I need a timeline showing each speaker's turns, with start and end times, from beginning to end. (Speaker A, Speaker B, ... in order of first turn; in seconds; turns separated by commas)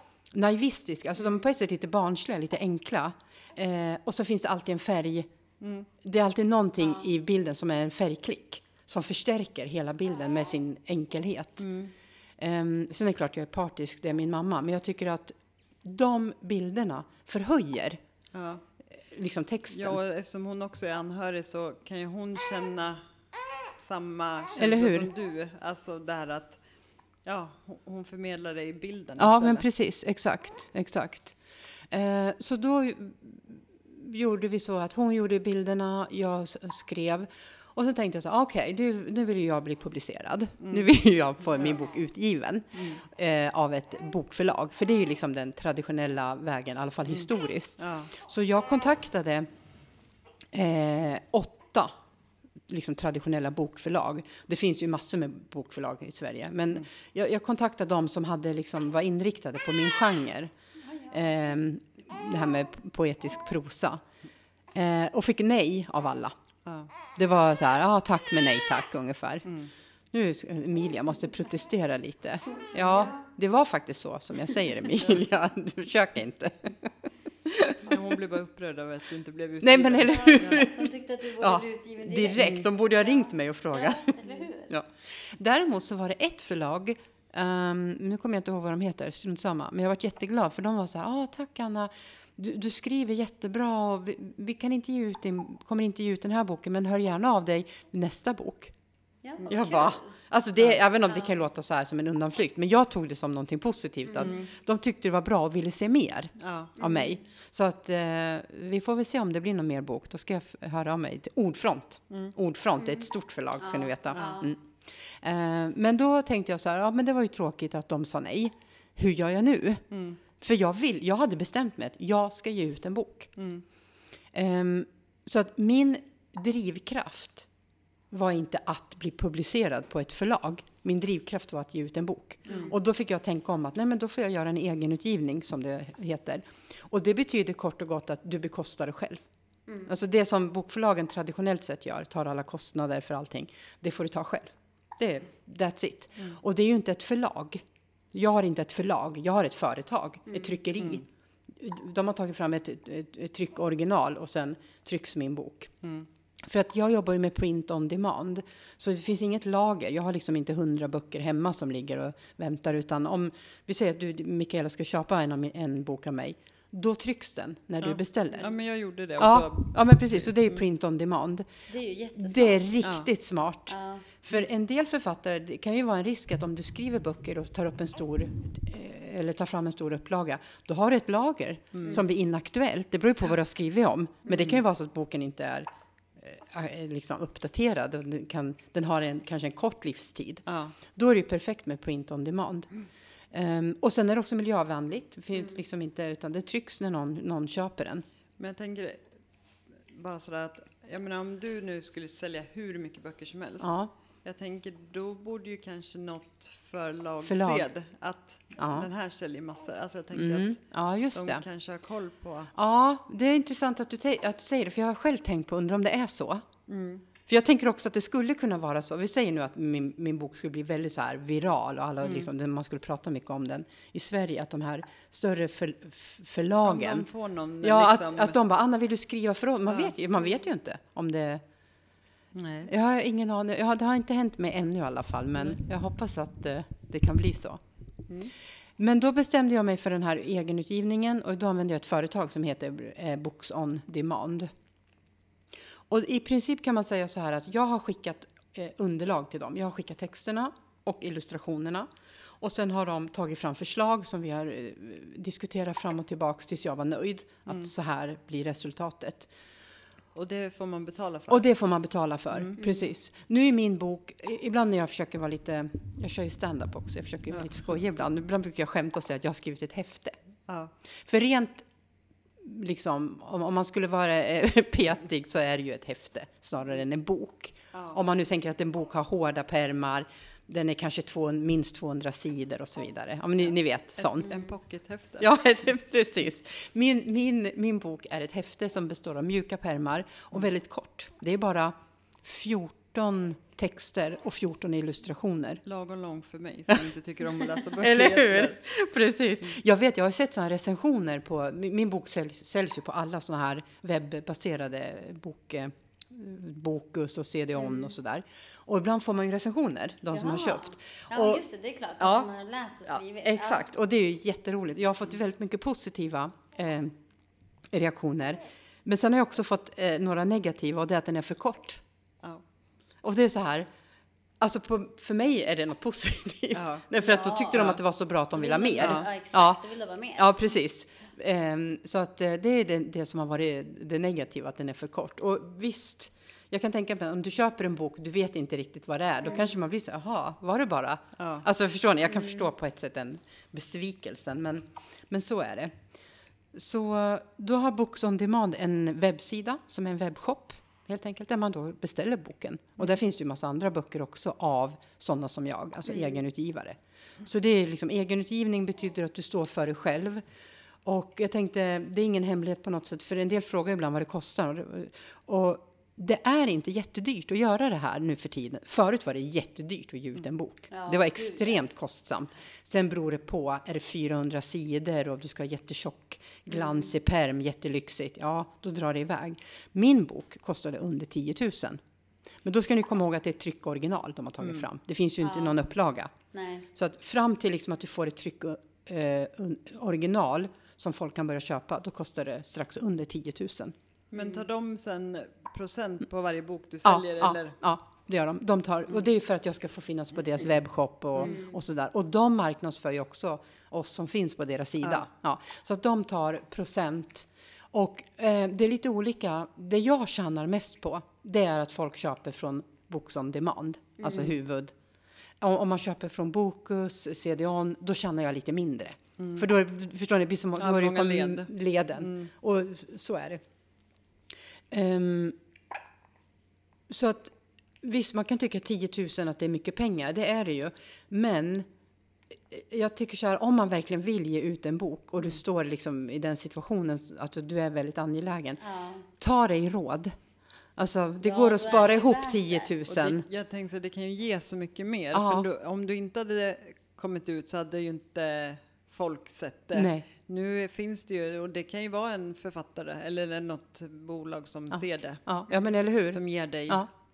Speaker A: 0.3-5.3, Speaker B: 5.6-5.9, Speaker A: 6.0-11.7, Speaker B: 11.6-11.9, Speaker A: 12.4-18.0, Speaker B: 18.3-18.6, Speaker A: 19.1-20.0, Speaker B: 19.7-23.0, Speaker B: 23.8-26.6, Speaker A: 24.6-25.1, Speaker B: 27.2-29.7, Speaker A: 29.2-31.4, Speaker A: 31.9-49.5, Speaker B: 40.6-40.9, Speaker B: 42.8-43.0, Speaker B: 47.8-48.1, Speaker A: 50.5-51.9, Speaker A: 52.7-60.5, Speaker C: 60.9-61.2, Speaker A: 61.1-64.0, Speaker A: 64.8-66.3, Speaker B: 66.7-66.9, Speaker A: 67.2-69.5, Speaker B: 69.5-69.7, Speaker A: 70.1-76.9, Speaker A: 77.5-78.0, Speaker B: 77.8-80.7, Speaker A: 79.6-98.7, Speaker C: 80.0-84.7, Speaker B: 82.4-82.7, Speaker C: 99.2-100.2, Speaker A: 99.5-119.8, Speaker C: 101.1-101.3, Speaker C: 104.1-104.4, Speaker B: 104.2-104.5, Speaker B: 106.4-106.7, Speaker C: 106.8-107.2, Speaker C: 112.8-113.1, Speaker C: 113.6-114.5, Speaker B: 114.2-114.4, Speaker B: 119.9-120.2, Speaker A: 120.4-123.3, Speaker B: 123.4-123.7, Speaker A: 124.3-127.5, Speaker A: 128.1-139.2, Speaker B: 132.5-132.7, Speaker C: 139.7-139.9, Speaker A: 139.9-147.6, Speaker A: 148.1-151.1, Speaker C: 150.3-150.6, Speaker A: 151.6-155.7, Speaker B: 155.8-156.1, Speaker A: 156.4-168.5, Speaker B: 167.8-170.6, Speaker A: 169.2-171.5, Speaker C: 171.7-172.7, Speaker A: 172.2-185.7, Speaker C: 173.7-174.1, Speaker B: 181.7-182.0, Speaker B: 184.3-184.6, Speaker A: 186.2-192.7, Speaker B: 190.5-190.8, Speaker A: 193.3-198.1, Speaker B: 198.4-199.1, Speaker B: 199.9-203.7, Speaker A: 203.6-203.9, Speaker B: 204.2-210.6, Speaker A: 207.2-207.7, Speaker A: 208.6-208.9, Speaker A: 210.1-211.4, Speaker B: 211.1-212.5, Speaker A: 212.6-216.4, Speaker B: 216.7-217.1, Speaker A: 217.3-227.1, Speaker B: 222.0-222.3, Speaker B: 226.6-228.4, Speaker A: 227.6-231.4, Speaker B: 229.7-229.9, Speaker B: 232.3-232.7, Speaker A: 232.7-237.6, Speaker B: 238.1-238.3, Speaker A: 238.8-244.5, Speaker A: 245.9-251.9, Speaker A: 252.4-259.3, Speaker B: 260.1-261.5, Speaker A: 261.3-270.2, Speaker C: 262.6-262.9, Speaker B: 267.3-267.8, Speaker A: 271.1-271.7, Speaker A: 272.4-284.3, Speaker B: 277.7-278.0, Speaker B: 284.0-285.3, Speaker C: 284.3-284.6, Speaker A: 285.2-295.6, Speaker B: 295.6-298.6, Speaker A: 297.8-311.4, Speaker C: 307.6-307.9, Speaker C: 310.1-313.7, Speaker A: 312.0-312.3, Speaker A: 312.9-317.0, Speaker A: 317.7-321.8, Speaker A: 323.0-323.7, Speaker A: 324.4-329.6, Speaker B: 326.5-326.9, Speaker C: 327.0-327.7, Speaker B: 327.5-327.8, Speaker C: 328.3-330.4, Speaker B: 328.8-329.1, Speaker A: 330.2-345.7, Speaker B: 341.2-341.5, Speaker C: 342.1-342.5, Speaker A: 346.5-360.2, Speaker C: 355.9-356.2, Speaker A: 360.9-381.8, Speaker C: 370.7-371.6, Speaker C: 376.5-376.9, Speaker A: 382.4-386.1, Speaker B: 384.4-384.7, Speaker C: 385.2-385.7, Speaker C: 386.3-386.7, Speaker A: 386.8-393.8, Speaker B: 394.1-397.6, Speaker A: 396.9-414.8, Speaker C: 401.2-401.6, Speaker B: 404.8-405.1, Speaker C: 414.0-414.3, Speaker A: 415.4-423.4, Speaker B: 419.2-419.5, Speaker B: 420.6-422.3, Speaker A: 424.7-425.4, Speaker A: 426.9-431.7, Speaker A: 432.5-438.6, Speaker C: 438.6-439.1, Speaker A: 439.2-440.1, Speaker A: 440.8-443.2, Speaker C: 441.2-442.7, Speaker B: 442.9-455.4, Speaker A: 445.1-445.5, Speaker A: 449.7-450.1, Speaker A: 454.7-456.9, Speaker B: 456.1-456.9